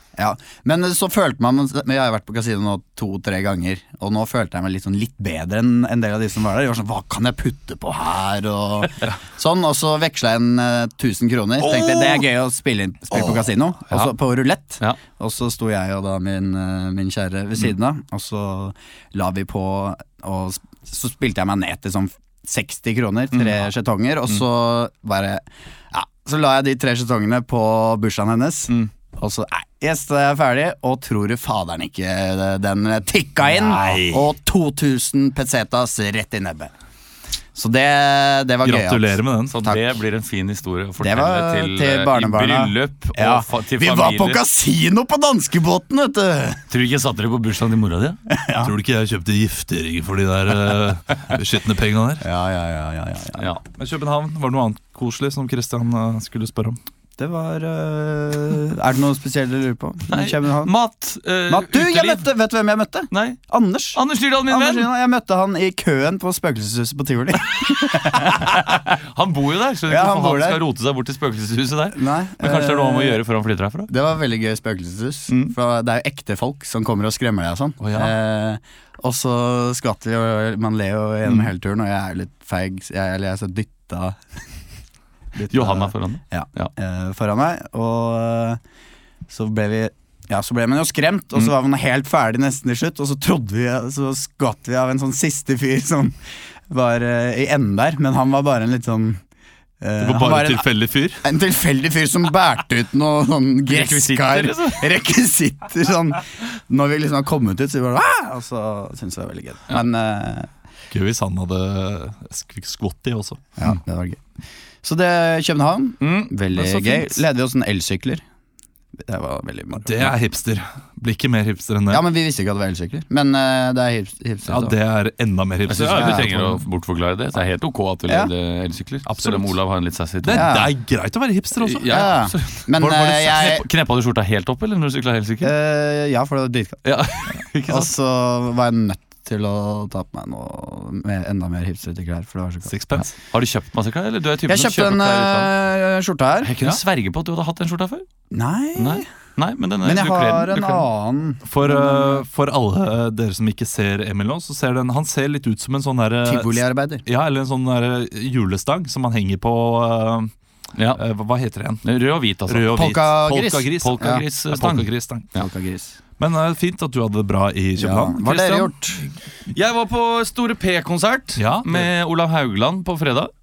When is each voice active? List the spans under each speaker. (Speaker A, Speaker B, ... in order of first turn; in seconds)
Speaker A: 0.2-36.7, 37.5-39.2, 41.0-46.6, 48.3-48.7, 52.2-53.5, 57.2-60.7, 61.5-68.9, 69.9-70.6, 71.9-73.2, 73.9-84.2, 85.3-88.6, 89.3-96.2, 96.7-99.2, 99.8-100.7, 101.2-110.5, 113.6-114.2, 114.8-118.2, 119.0-120.1, 121.9-124.8, 125.9-126.2, 130.3-130.7, 131.9-133.7, 135.4-136.8, 137.7-142.7, 144.5-146.5, 148.3-149.1, 149.8-152.2, 156.2-157.0, 162.8-164.2, 165.4-166.0, 167.8-169.0
Speaker B: 11.7-12.1, 33.7-34.2, 39.5-44.4, 46.7-48.2, 60.1-62.2, 63.1-63.4, 64.0-64.9, 68.9-73.9, 75.3-75.5, 85.5-86.7, 103.7-104.8, 116.0-117.1, 125.7-130.6, 131.6-135.5, 136.8-137.9, 143.0-145.5, 146.4-148.1, 148.8-150.8, 161.8-163.0, 163.8-165.5, 169.5-173.3
Speaker C: 33.6-34.2, 38.6-39.8, 48.6-52.3, 53.7-56.8, 77.8-78.1, 100.0-101.2, 110.9-113.5, 119.8-122.0, 124.5-126.6, 129.1-129.6, 130.2-132.1, 142.7-143.1, 151.5-160.3, 160.9-161.9, 162.5-165.3, 166.2-168.7, 171.4-171.9